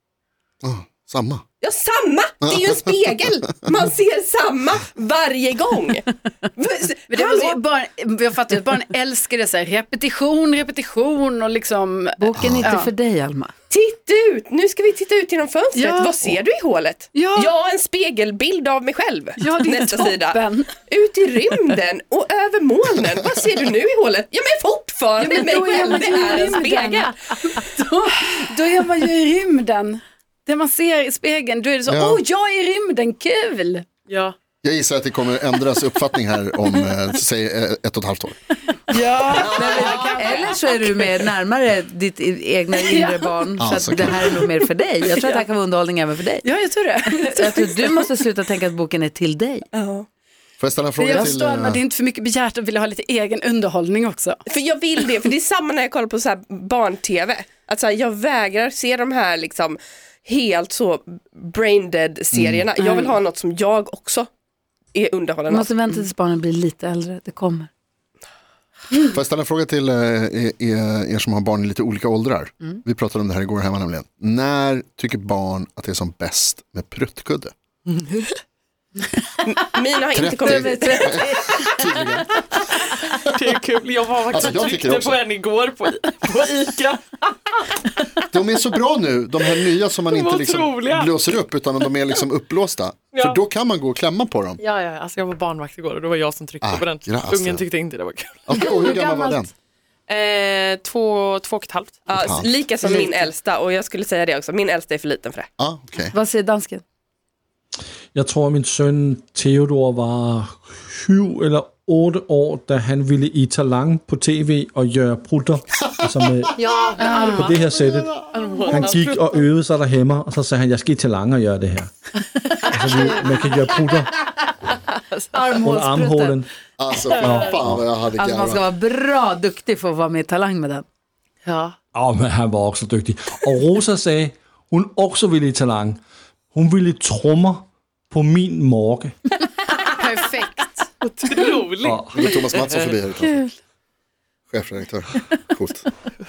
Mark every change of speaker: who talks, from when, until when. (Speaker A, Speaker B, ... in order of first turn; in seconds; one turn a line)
Speaker A: 0.6-1.4
Speaker B: 1.6-7.6
Speaker A: 2.4-3.2
Speaker C: 7.1-12.9
Speaker D: 12.2-13.5
Speaker A: 12.4-12.7
Speaker B: 13.7-27.1
Speaker C: 15.7-16.4
Speaker C: 17.1-17.5
Speaker C: 19.4-20.7
Speaker C: 25.2-33.9
Speaker A: 31.9-32.2
Speaker E: 34.1-34.3
Speaker A: 34.6-38.4
Speaker C: 38.9-41.1
Speaker D: 39.4-46.5
Speaker C: 42.7-43.4
Speaker A: 43.6-44.4
Speaker C: 46.4-48.0
Speaker D: 47.3-49.6
Speaker B: 49.7-50.0
Speaker A: 50.6-51.8
Speaker C: 51.0-54.4
Speaker B: 54.5-64.3
Speaker C: 55.0-55.3
Speaker A: 62.3-62.7
Speaker D: 62.8-63.1
Speaker B: 64.9-66.0
Speaker D: 65.5-67.7
Speaker A: 69.1-77.5
Speaker E: 77.9-78.4
Speaker B: 79.4-81.4
Speaker A: 80.1-82.6
Speaker D: 80.4-81.6
Speaker E: 82.5-88.2
Speaker A: 84.3-85.2
Speaker A: 88.3-94.6
Speaker E: 90.1-91.1
Speaker E: 93.1-93.4
Speaker E: 94.6-99.4
Speaker A: 96.6-97.6
Speaker A: 98.5-99.5
Speaker E: 100.1-102.1
Speaker B: 102.1-105.5
Speaker A: 102.2-102.5
Speaker D: 102.9-103.1
Speaker A: 105.6-106.2
Speaker D: 106.1-106.8
Speaker F: 108.1-116.5
Speaker E: 116.6-117.6
Speaker C: 117.0-117.5
Speaker F: 117.1-122.1
Speaker E: 118.2-119.4
Speaker E: 122.4-123.5
Speaker F: 122.7-124.2
Speaker E: 124.7-125.5
Speaker D: 125.3-126.4
Speaker F: 125.6-126.5
Speaker A: 126.8-128.6
Speaker F: 127.2-127.8
Speaker D: 128.2-130.8
Speaker E: 131.4-131.8
Speaker F: 131.9-139.1
Speaker C: 139.8-140.9
Speaker E: 141.0-142.0
Speaker F: 141.8-142.3
Speaker A: 142.1-143.4
Speaker E: 142.5-142.9
Speaker A: 144.5-145.8